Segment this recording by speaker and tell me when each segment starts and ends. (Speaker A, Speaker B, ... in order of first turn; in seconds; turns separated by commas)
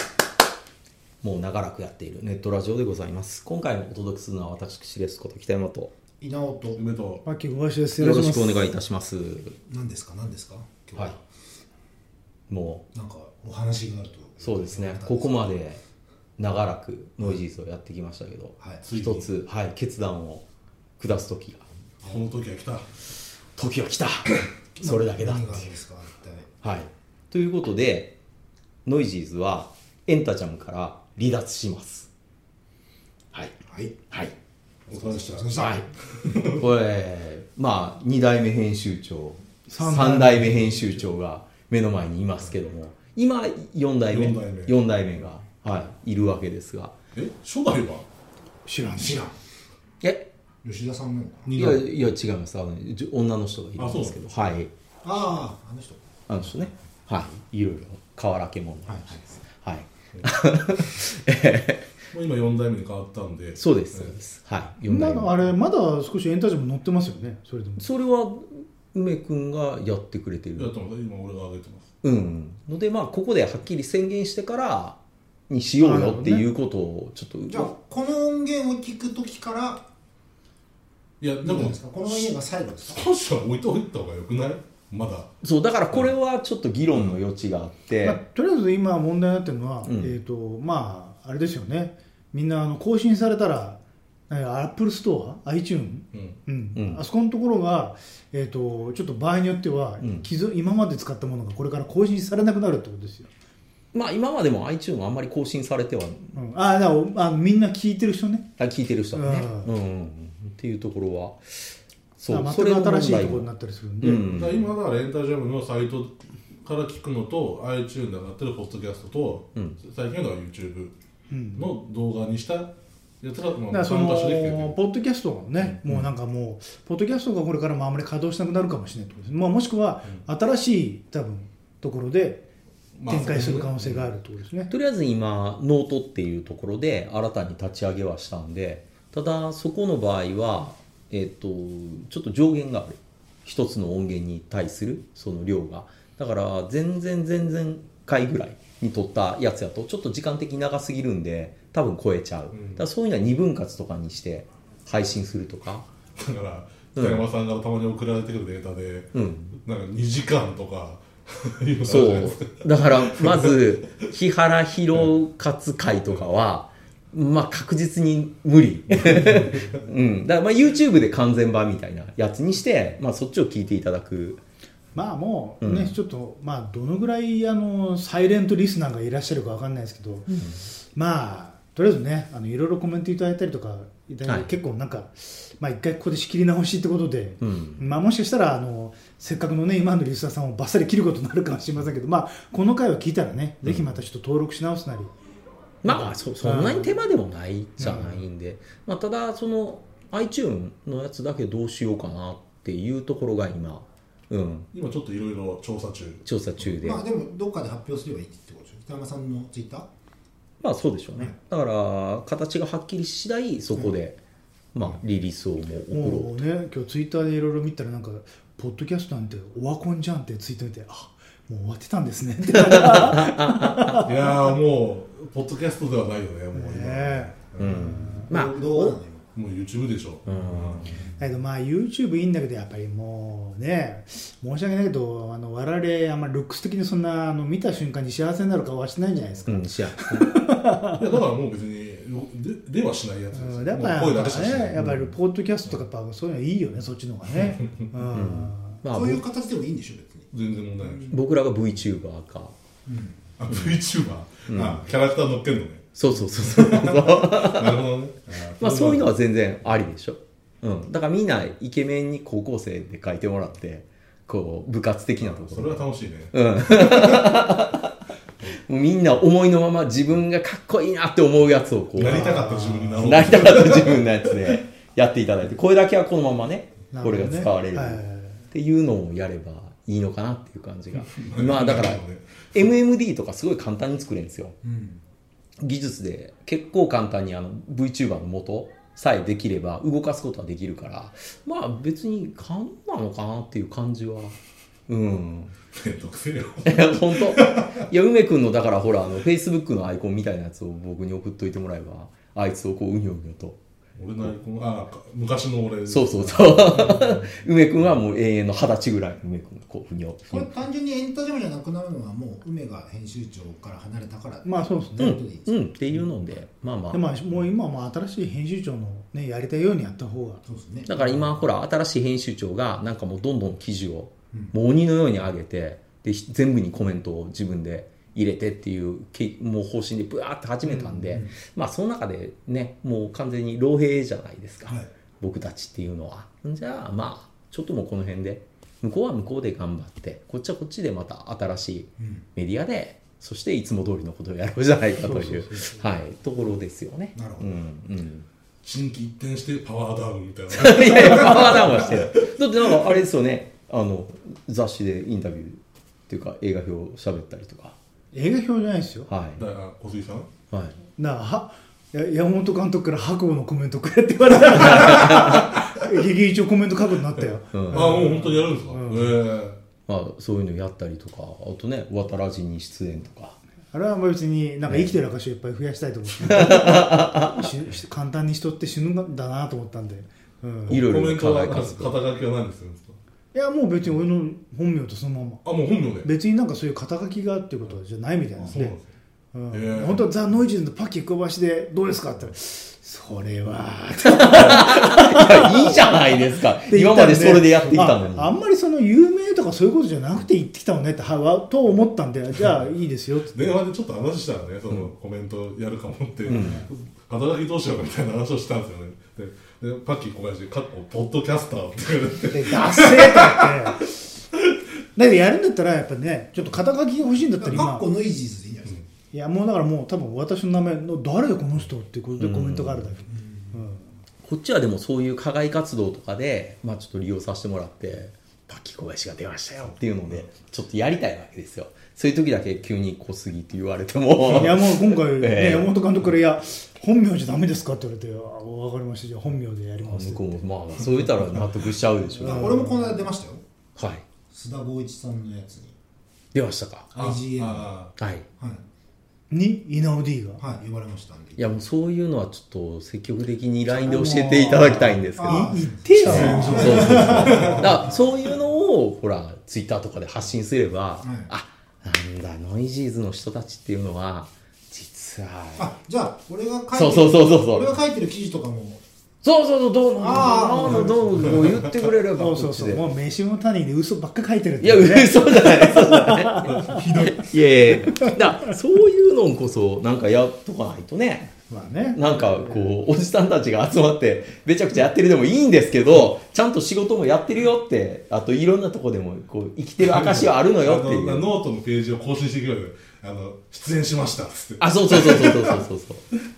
Speaker A: 1.2-5.9, Speaker B: 6.2-6.8, Speaker C: 6.8-7.2, Speaker D: 7.2-8.8, Speaker A: 8.0-9.6, Speaker B: 9.7-11.2, Speaker A: 12.5-12.9, Speaker B: 12.9-15.5, Speaker A: 14.4-15.8, Speaker A: 16.4-20.5, Speaker B: 18.6-18.8, Speaker C: 18.8-19.3, Speaker A: 21.0-21.7, Speaker C: 22.0-22.9, Speaker A: 23.6-25.8, Speaker B: 24.8-26.5, Speaker A: 26.6-28.2, Speaker A: 28.9-32.1, Speaker B: 33.7-34.0, Speaker C: 34.9-35.5, Speaker B: 34.9-35.9, Speaker A: 35.5-35.9, Speaker C: 36.2-36.6, Speaker A: 36.6-47.0, Speaker D: 39.7-41.0, Speaker C: 44.1-44.8, Speaker C: 47.1-48.1, Speaker D: 48.7-49.3, Speaker B: 49.0-49.4, Speaker A: 50.0-50.3, Speaker B: 50.6-51.5, Speaker C: 51.5-52.0, Speaker A: 51.5-54.7, Speaker C: 53.8-54.2, Speaker B: 55.0-56.0, Speaker A: 56.3-61.9, Speaker B: 58.9-59.2, Speaker C: 62.1-64.2, Speaker A: 63.6-65.6, Speaker D: 64.8-67.9, Speaker A: 67.8-70.7, Speaker C: 70.6-71.9, Speaker A: 72.0-75.0, Speaker A: 75.5-77.7, Speaker D: 75.8-76.5, Speaker B: 77.5-79.8, Speaker C: 81.2-85.3, Speaker B: 81.4-83.1, Speaker A: 85.4-88.2, Speaker C: 86.9-87.2, Speaker D: 88.0-93.8, Speaker A: 89.8-90.2, Speaker D: 94.3-103.3, Speaker A: 96.8-97.0, Speaker A: 100.0-100.3, Speaker A: 103.9-106.3, Speaker D: 106.3-108.6, Speaker A: 108.6-114.7, Speaker D: 109.1-109.7, Speaker D: 112.3-114.2, Speaker C: 114.2-120.9, Speaker D: 121.3-121.7, Speaker C: 121.5-124.8, Speaker D: 123.7-132.4, Speaker A: 125.6-126.0, Speaker C: 133.0-133.8, Speaker D: 133.1-134.7, Speaker A: 133.8-134.1, Speaker A: 134.7-155.9, Speaker C: 152.5-152.8, Speaker C: 156.2-163.6, Speaker A: 157.0-157.2, Speaker A: 159.1-159.6, Speaker A: 161.9-174.4, Speaker C: 168.9-169.7, Speaker D: 174.9-195.1, Speaker A: 175.6-176.0, Speaker A: 180.3-180.6, Speaker A: 187.4-187.8, Speaker A: 195.8-204.7, Speaker D: 195.8-197.0, Speaker B: 197.8-198.2, Speaker C: 204.7-206.2, Speaker A: 206.2-207.1, Speaker B: 206.8-209.9, Speaker A: 210.6-214.2, Speaker A: 214.7-216.5, Speaker D: 215.9-224.3, Speaker A: 222.6-224.1, Speaker C: 224.0-228.0, Speaker D: 226.5-228.3, Speaker A: 227.6-229.0, Speaker B: 228.3-229.3, Speaker C: 229.3-231.0, Speaker A: 230.3-231.0, Speaker D: 231.2-241.1, Speaker A: 239.5-240.4, Speaker C: 240.9-245.0, Speaker D: 243.3-248.8, Speaker C: 247.3-247.9, Speaker A: 248.1-249.2, Speaker B: 248.9-250.3, Speaker C: 250.3-251.1, Speaker B: 250.8-251.2, Speaker A: 251.1-252.6, Speaker B: 252.9-253.2, Speaker C: 253.4-259.1, Speaker A: 253.5-253.8, Speaker A: 254.5-254.9, Speaker A: 255.9-257.8, Speaker A: 258.6-267.9, Speaker C: 265.2-267.3, Speaker A: 268.5-284.6, Speaker C: 272.0-274.1, Speaker D: 272.0-273.1, Speaker D: 276.9-278.4, Speaker C: 280.9-282.7, Speaker B: 284.6-285.0, Speaker A: 285.6-294.4, Speaker A: 294.9-295.6, Speaker C: 295.7-297.9, Speaker A: 296.6-303.6, Speaker C: 304.0-307.3, Speaker A: 305.9-310.6, Speaker B: 310.3-316.3, Speaker D: 314.4-315.2, Speaker A: 315.0-317.0, Speaker D: 316.9-320.4, Speaker B: 320.4-320.9, Speaker A: 320.9-348.3, Speaker B: 330.6-331.4, Speaker B: 334.6-334.9, Speaker B: 342.0-342.3, Speaker D: 344.9-345.8, Speaker B: 347.1-347.6, Speaker C: 348.6-353.0, Speaker A: 350.5-357.8, Speaker D: 358.1-359.1, Speaker A: 359.1-359.4, Speaker C: 359.4-360.3, Speaker A: 360.5-360.8, Speaker D: 361.0-369.2, Speaker A: 364.6-365.5, Speaker A: 367.5-367.9, Speaker C: 367.7-369.6, Speaker A: 369.9-373.4, Speaker D: 373.7-380.8, Speaker A: 376.3-377.3, Speaker A: 380.7-382.0, Speaker C: 380.7-383.0, Speaker D: 383.3-388.8, Speaker C: 385.4-386.1, Speaker C: 388.4-388.9, Speaker D: 389.3-403.6, Speaker C: 389.5-390.1, Speaker A: 394.1-398.3, Speaker C: 403.3-413.7, Speaker A: 406.3-406.7, Speaker D: 406.3-406.6, Speaker B: 412.3-413.0, Speaker D: 412.4-414.0, Speaker D: 415.0-417.9, Speaker B: 417.4-418.8, Speaker D: 419.1-423.9, Speaker A: 422.2-423.0, Speaker B: 423.1-423.6, Speaker A: 424.2-435.8, Speaker D: 434.2-440.4, Speaker A: 439.9-442.6, Speaker D: 442.2-443.0, Speaker B: 442.2-443.4, Speaker A: 443.8-444.0, Speaker B: 444.3-445.8, Speaker A: 446.3-446.9, Speaker B: 446.9-447.7, Speaker C: 446.9-447.9, Speaker A: 448.0-448.3, Speaker B: 448.4-448.6, Speaker D: 449.3-450.4, Speaker B: 450.4-451.5, Speaker A: 451.4-465.8, Speaker D: 453.8-457.8, Speaker C: 454.5-455.0, Speaker B: 455.2-458.2, Speaker C: 456.0-457.7, Speaker B: 461.0-461.3, Speaker B: 465.6-468.8, Speaker A: 466.7-467.7, Speaker A: 469.2-472.8, Speaker B: 470.0-471.4, Speaker D: 470.7-470.9, Speaker D: 472.2-476.8, Speaker A: 474.6-481.3, Speaker C: 476.6-477.2, Speaker D: 481.5-482.7, Speaker A: 481.9-491.3, Speaker C: 489.8-495.6, Speaker A: 494.6-496.1